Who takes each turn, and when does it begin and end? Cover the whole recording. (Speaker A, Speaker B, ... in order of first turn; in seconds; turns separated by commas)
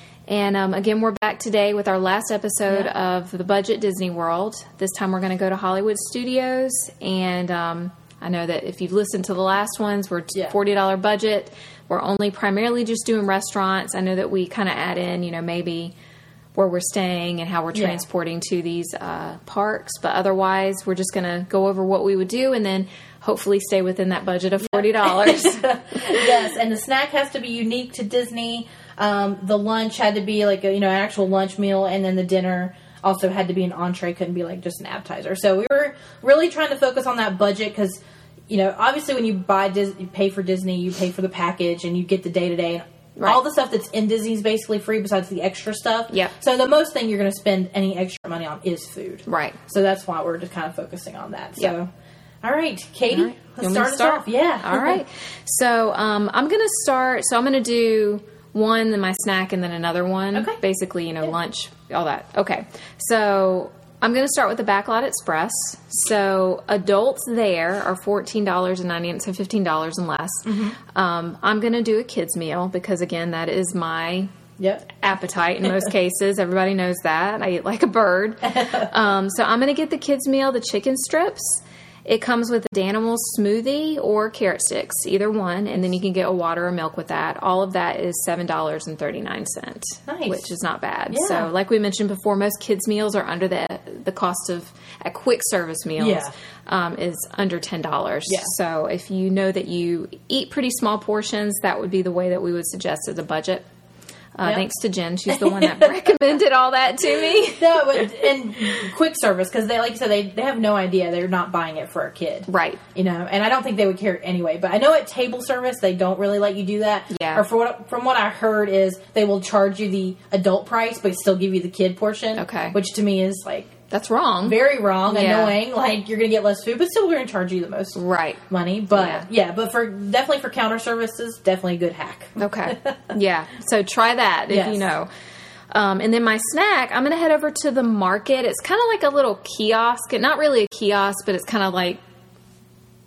Speaker A: 0.3-15.9, Speaker A: 16.6-26.3, Speaker B: 17.7-18.0, Speaker B: 24.6-51.9, Speaker A: 49.3-49.6, Speaker B: 52.4-55.0, Speaker A: 53.1-74.3, Speaker B: 60.3-60.6, Speaker B: 70.5-70.8, Speaker B: 74.6-74.9, Speaker A: 75.0-103.6, Speaker B: 78.5-78.9, Speaker B: 90.1-90.5, Speaker B: 91.1-91.5, Speaker B: 96.0-96.3, Speaker A: 104.4-108.1, Speaker B: 105.3-105.9, Speaker B: 107.5-123.8, Speaker A: 112.5-112.8, Speaker A: 117.1-117.4, Speaker A: 122.4-122.8, Speaker A: 123.9-125.6, Speaker B: 124.5-133.1, Speaker A: 128.0-128.4, Speaker A: 128.9-129.3, Speaker A: 132.4-135.1, Speaker B: 134.5-134.9, Speaker A: 135.7-142.0